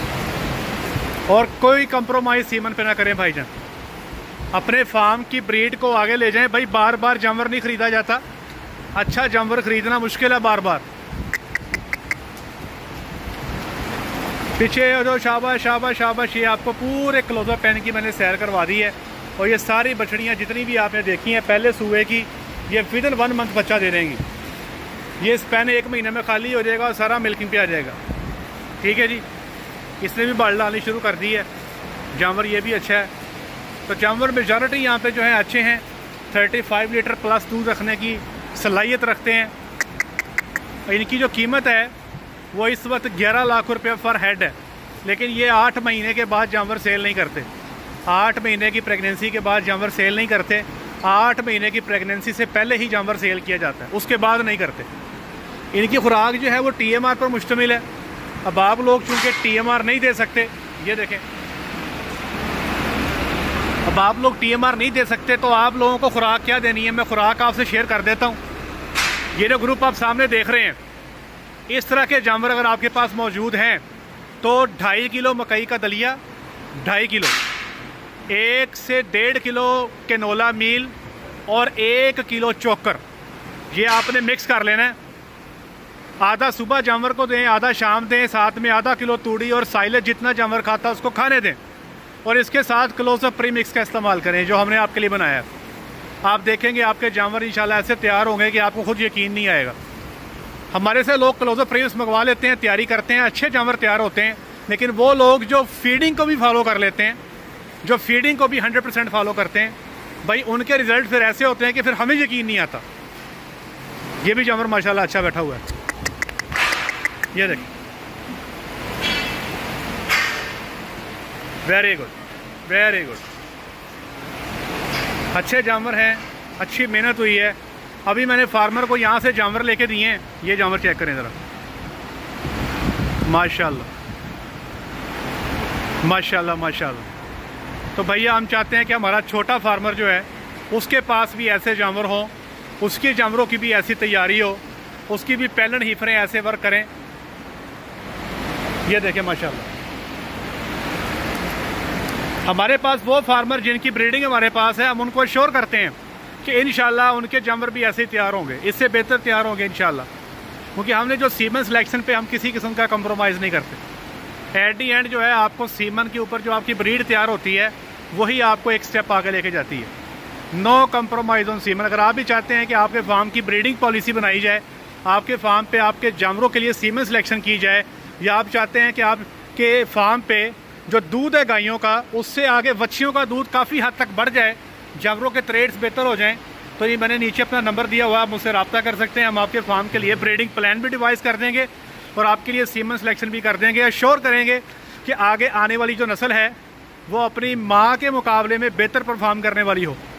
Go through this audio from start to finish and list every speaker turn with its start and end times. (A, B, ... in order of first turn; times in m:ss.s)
0:01.3-0:03.5 A
0:04.5-0:08.2 A
0:09.0-0:10.8 A
0:14.6-0:24.2 A
0:25.2-0:28.0 A
0:28.8-0:29.2 A
0:30.0-0:31.5 A
0:32.1-0:33.1 A
0:33.9-0:39.5 A
0:40.9-0:41.9 A
0:42.5-0:47.5 A
0:48.1-0:54.9 A
0:55.7-0:57.9 A
0:58.4-1:01.2 A
1:03.8-1:08.4 A
1:09.4-1:10.8 A
1:11.7-1:13.8 A
1:14.4-1:16.2 A
1:16.8-1:17.4 A
1:18.3-1:20.9 A
1:21.5-1:23.0 A
1:23.7-1:25.0 A
1:26.2-1:31.6 A
1:32.2-1:35.5 A
1:36.2-1:39.8 A
1:40.7-1:47.2 A
1:47.8-1:52.8 A
1:54.2-1:55.6 A
1:57.3-1:57.7 A
2:01.6-2:02.2 A
2:02.7-2:03.2 A
2:05.3-2:11.4 A
2:13.2-2:13.9 A
2:16.0-2:17.1 A
2:18.0-2:26.9 A
2:28.8-2:29.7 A
2:32.4-2:40.1 A
2:40.8-2:43.8 A
2:44.5-2:49.9 A
2:50.5-3:16.6 A
3:17.1-3:20.0 A